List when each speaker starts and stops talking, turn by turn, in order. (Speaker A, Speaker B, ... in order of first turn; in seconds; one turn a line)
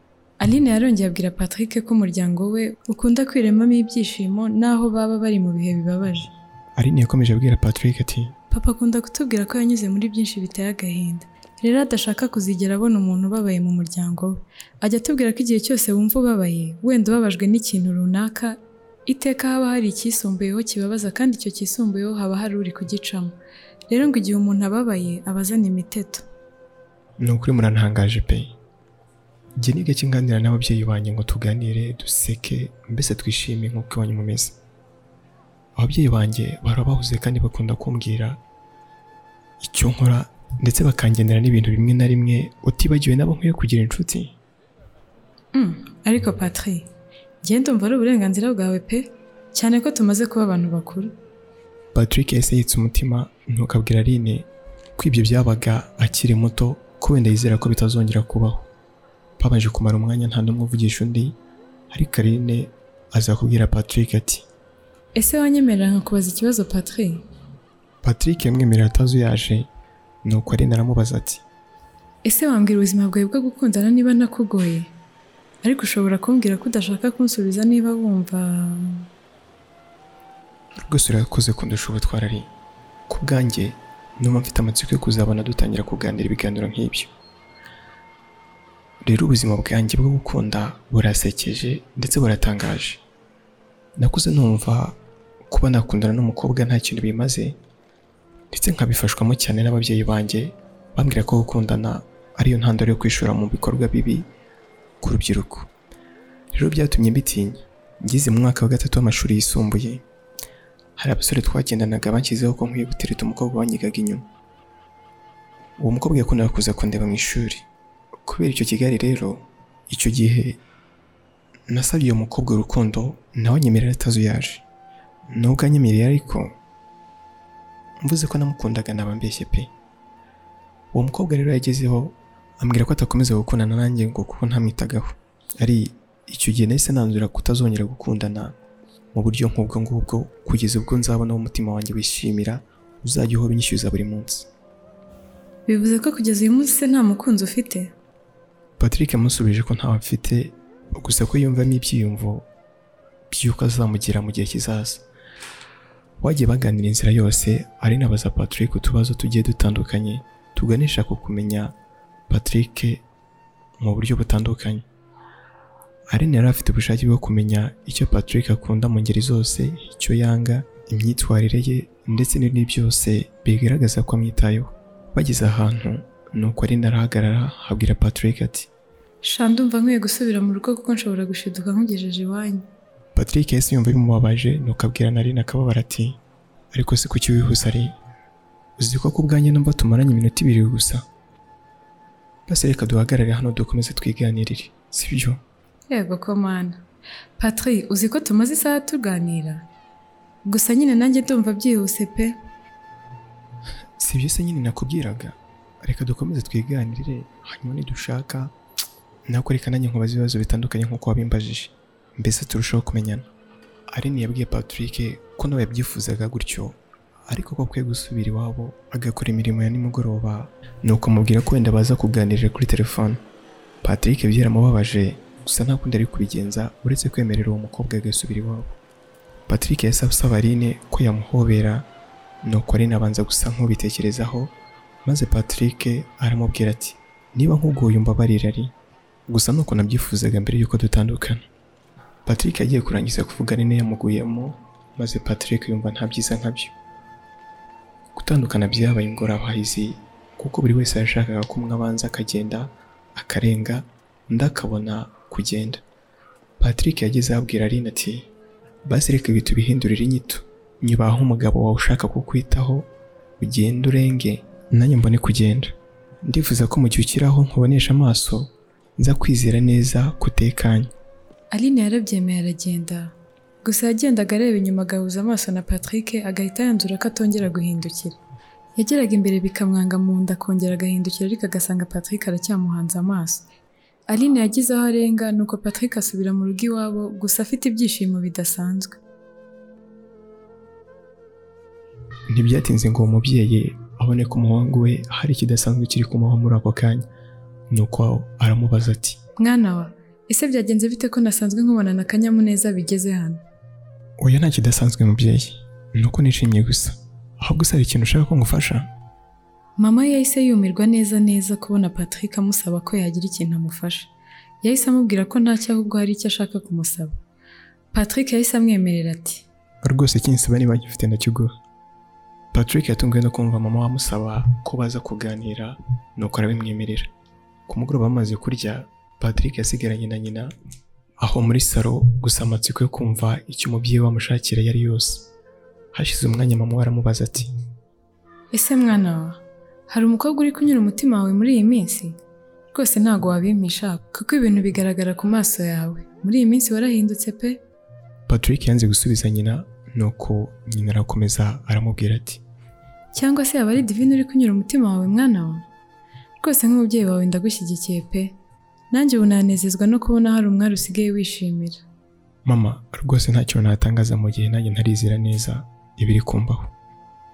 Speaker A: 0.4-6.3
Speaker B: 6.8-8.3
Speaker A: 8.5-18.6
Speaker A: 19.1-23.3
Speaker A: 23.9-26.2
Speaker B: 27.2-28.5
Speaker B: 29.6-34.6
Speaker B: 35.8-38.4
Speaker B: 39.6-44.4
Speaker A: 45.5-46.9
Speaker A: 47.4-51.1
Speaker B: 51.9-58.7
Speaker B: 59.4-61.4
Speaker B: 61.9-64.5
Speaker A: 65.2-67.2
Speaker B: 68.0-69.7
Speaker B: 70.2-71.4
Speaker A: 72.2-74.9
Speaker A: 75.6-79.1
Speaker B: 80.8-82.5
Speaker B: 83.1-87.1
Speaker B: 89.0-93.0
Speaker B: 94.0-95.0
Speaker B: 95.5-97.6
Speaker B: 98.5-104.3
Speaker B: 105.0-105.7
Speaker B: 106.5-110.0
Speaker B: 111.0-114.2
Speaker B: 115.8-117.7
Speaker B: 118.2-120.6
Speaker B: 121.7-124.6
Speaker B: 125.3-126.5
Speaker B: 128.0-129.7
Speaker B: 130.9-138.6
Speaker B: 139.1-144.5
Speaker A: 145.7-147.9
Speaker B: 148.8-152.5
Speaker B: 153.3-155.0
Speaker B: 156.2-161.7
Speaker B: 162.3-163.0
Speaker B: 163.8-164.8
Speaker B: 166.1-178.7
Speaker A: 179.2-182.6
Speaker B: 183.1-186.2
Speaker B: 186.7-187.9
Speaker B: 188.8-191.0
Speaker B: 192.5-195.4
Speaker A: 195.9-196.8
Speaker A: 197.4-199.6
Speaker A: 200.4-202.3
Speaker B: 204.0-208.5
Speaker B: 209.3-213.3
Speaker B: 213.9-223.2
Speaker B: 223.8-228.8
Speaker B: 229.5-231.9
Speaker B: 232.4-234.5
Speaker B: 235.0-238.7
Speaker B: 239.3-241.4
Speaker B: 242.2-246.7
Speaker B: 248.1-255.8
Speaker B: 256.6-258.3
Speaker B: 258.8-270.9
Speaker A: 271.5-278.2
Speaker A: 278.8-283.4
Speaker A: 284.1-289.0
Speaker B: 292.3-297.1
Speaker B: 297.7-299.2
Speaker A: 299.4-303.4
Speaker B: 304.2-308.9
Speaker A: 309.8-314.1
Speaker A: 314.6-317.1
Speaker A: 317.9-319.4
Speaker B: 319.8-321.5
Speaker B: 322.5-327.1
Speaker B: 327.7-330.5
Speaker B: 331.2-335.3
Speaker B: 335.9-337.5
Speaker A: 338.5-342.2
Speaker A: 342.7-347.6
Speaker B: 348.3-352.4
Speaker A: 353.1-355.6
Speaker A: 356.4-358.4
Speaker A: 358.9-361.8
Speaker B: 362.4-366.7